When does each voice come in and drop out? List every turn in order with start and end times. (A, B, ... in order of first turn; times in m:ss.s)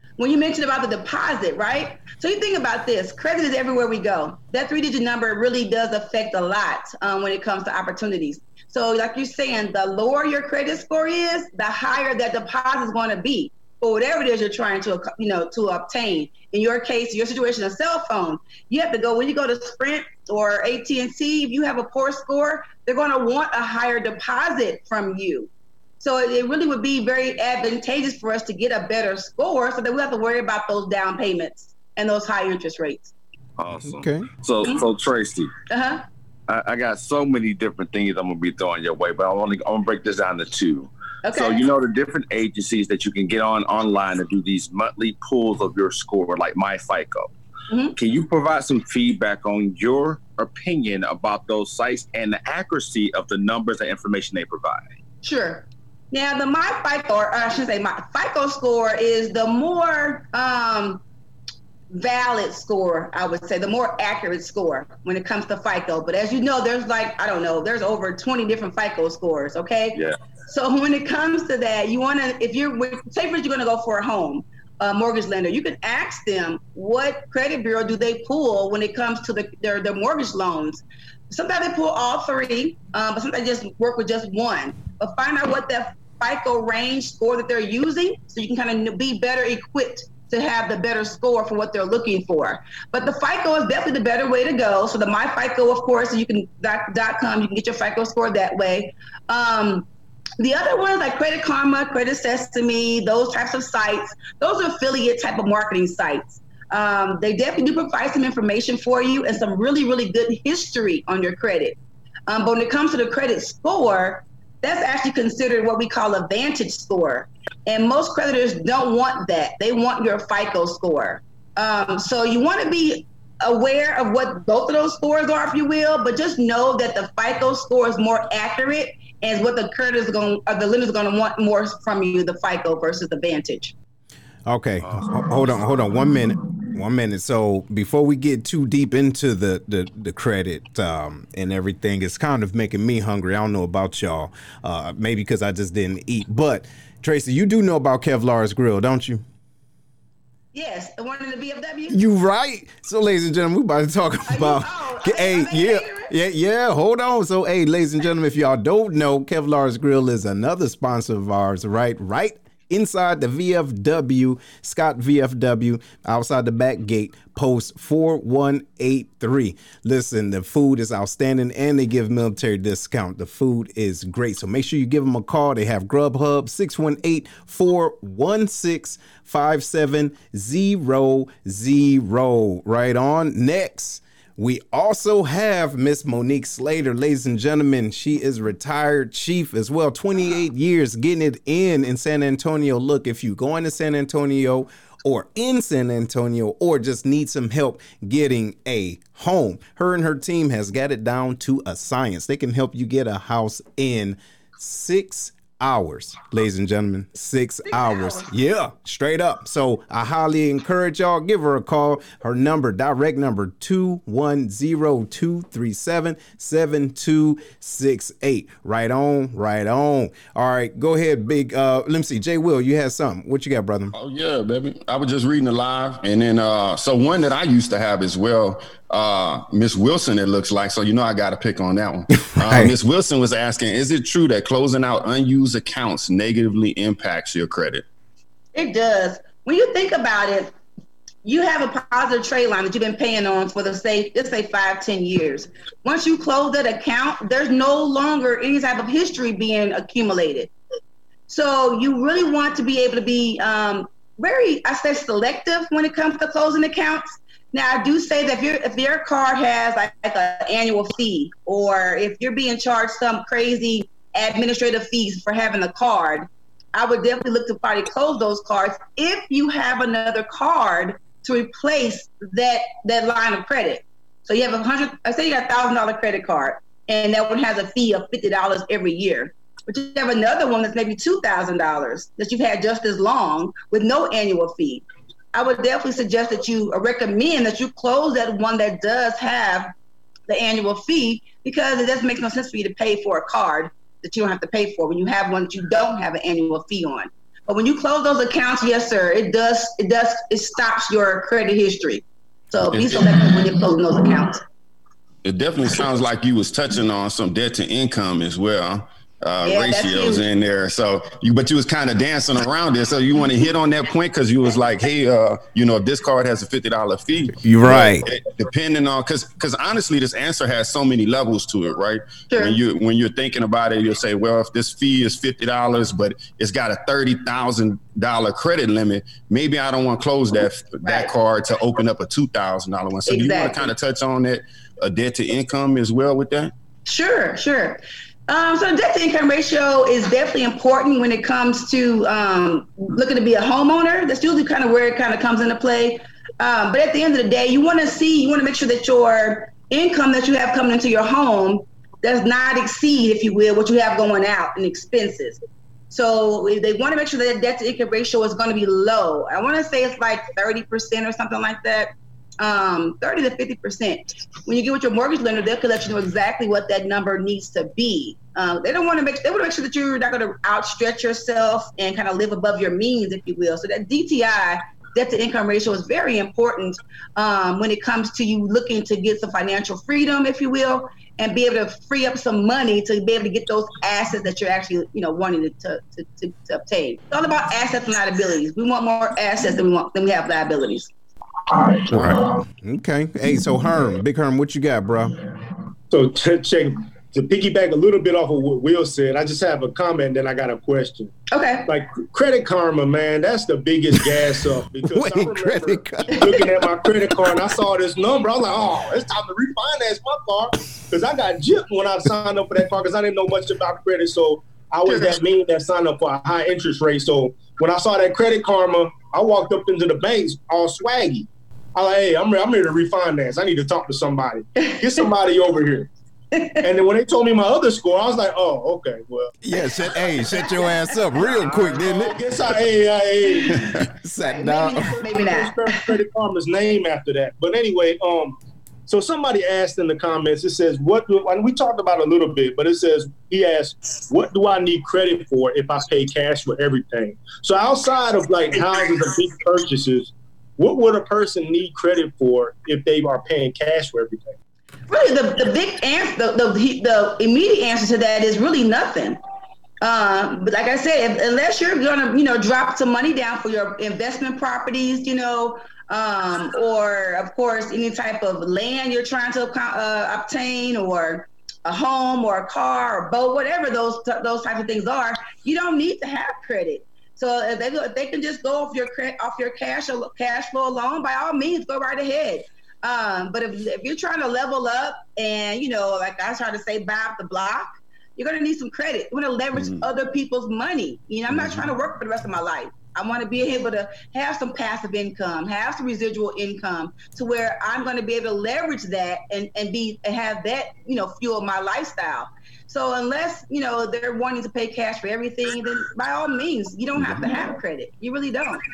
0:00.2-0:33.1 A
0:33.6-0:35.5 B
0:33.8-0:34.3 C
0:35.7-0:36.0 A
0:36.5-0:47.3 B
0:41.2-0:41.6 A
0:47.7-0:48.0 A
0:48.0-0:54.9 B
0:55.2-1:01.0 A
1:01.9-1:39.9 A
1:40.4-1:51.8 A
1:52.3-2:13.7 A
2:14.4-2:29.2 C
2:14.8-2:15.7 B
2:30.5-2:32.0 A
2:31.9-3:43.9 C
2:34.3-2:36.1 A
3:27.7-3:28.3 A
3:43.9-3:57.8 D
3:52.1-3:52.7 C
3:58.5-4:00.5 A
4:01.2-4:10.5 A
4:11.3-4:49.7 A
4:50.3-5:04.4 A
5:02.7-5:03.4 D
5:05.2-5:36.5 D
5:09.4-5:10.2 A
5:17.4-5:18.0 C
5:22.3-5:22.6 A
5:30.8-5:31.1 A
5:33.1-5:33.7 A
5:36.8-6:30.9 A
6:31.5-6:32.3 E
6:31.9-6:35.2 C
6:35.9-6:41.1 E
6:41.3-6:41.6 A
6:41.6-7:05.9 E
6:44.8-6:47.3 C
6:54.8-6:55.1 A
7:06.4-7:06.6 A
7:06.6-7:09.3 E
7:09.4-7:12.2 C
7:10.2-7:10.7 A
7:11.2-7:13.8 E
7:13.3-7:13.7 A
7:14.0-7:14.9 C
7:14.2-7:15.9 A
7:14.7-7:34.3 E
7:34.9-7:39.2 A
7:39.8-8:28.6 A
8:09.5-8:09.8 D
8:11.3-8:11.7 D